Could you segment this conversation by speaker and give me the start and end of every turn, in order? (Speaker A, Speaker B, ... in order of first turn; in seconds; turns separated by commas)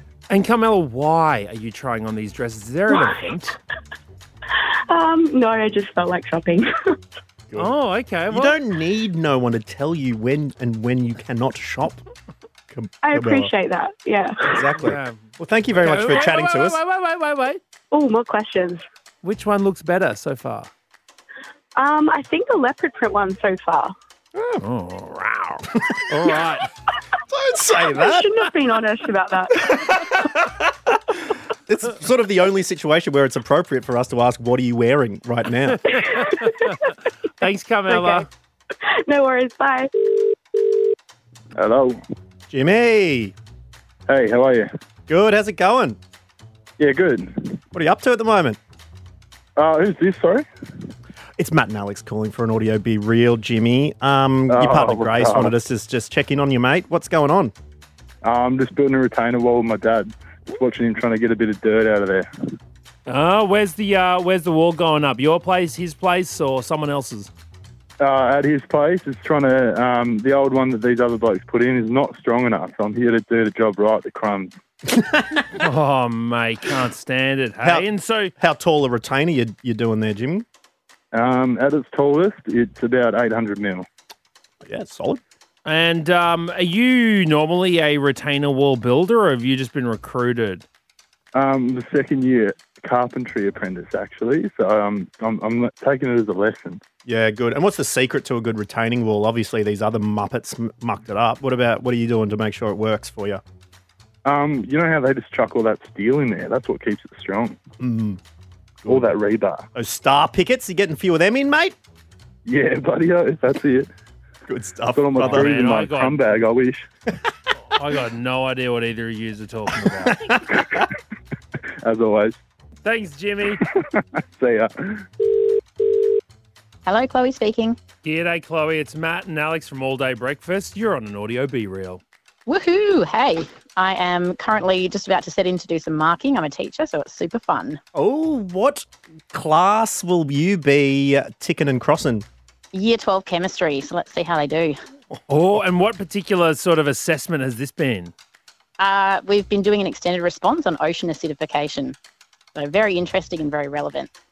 Speaker A: 0.3-3.5, Speaker B: 2.9-3.2, Speaker B: 4.9-7.0, Speaker A: 7.6-8.6, Speaker C: 8.3-12.0, Speaker C: 12.7-13.5, Speaker B: 13.0-14.7, Speaker C: 14.5-16.8, Speaker A: 14.8-17.6, Speaker B: 17.9-18.8, Speaker A: 19.2-20.7, Speaker B: 21.8-23.9, Speaker C: 24.3-24.6, Speaker A: 24.6-26.7, Speaker C: 25.7-26.0, Speaker C: 27.3-28.3, Speaker B: 27.8-30.1, Speaker C: 29.6-36.0, Speaker A: 35.9-36.7, Speaker B: 36.0-36.7, Speaker A: 37.4-38.3, Speaker B: 37.9-38.3, Speaker B: 38.8-39.9, Speaker D: 41.5-42.0, Speaker C: 42.5-43.3, Speaker D: 44.1-44.7, Speaker C: 45.1-46.0, Speaker D: 46.8-47.6, Speaker C: 47.7-48.6, Speaker D: 49.6-50.5, Speaker C: 51.4-57.5, Speaker D: 54.5-55.5, Speaker D: 58.2-62.3, Speaker A: 63.1-67.3, Speaker D: 68.0-74.5, Speaker C: 75.0-75.5, Speaker A: 75.5-78.3, Speaker C: 77.6-80.5, Speaker D: 81.1-83.8, Speaker C: 84.6-85.2, Speaker A: 85.6-90.6, Speaker D: 91.3-96.8, Speaker C: 97.0-103.4, Speaker D: 104.2-107.6, Speaker C: 107.8-108.2, Speaker C: 108.8-109.1, Speaker D: 108.9-109.6, Speaker C: 109.7-111.8, Speaker D: 112.5-113.9, Speaker C: 114.5-115.5, Speaker D: 114.9-116.9, Speaker A: 115.2-116.2, Speaker A: 117.7-120.2, Speaker C: 119.9-120.9, Speaker D: 120.4-120.9, Speaker D: 121.8-122.4, Speaker A: 122.8-123.6, Speaker D: 123.6-125.1, Speaker E: 126.8-127.8, Speaker A: 128.0-132.0, Speaker E: 132.5-137.8, Speaker C: 137.9-142.2, Speaker E: 142.7-144.8, Speaker A: 145.3-148.1, Speaker E: 148.8-151.9, Speaker E: 152.5-154.1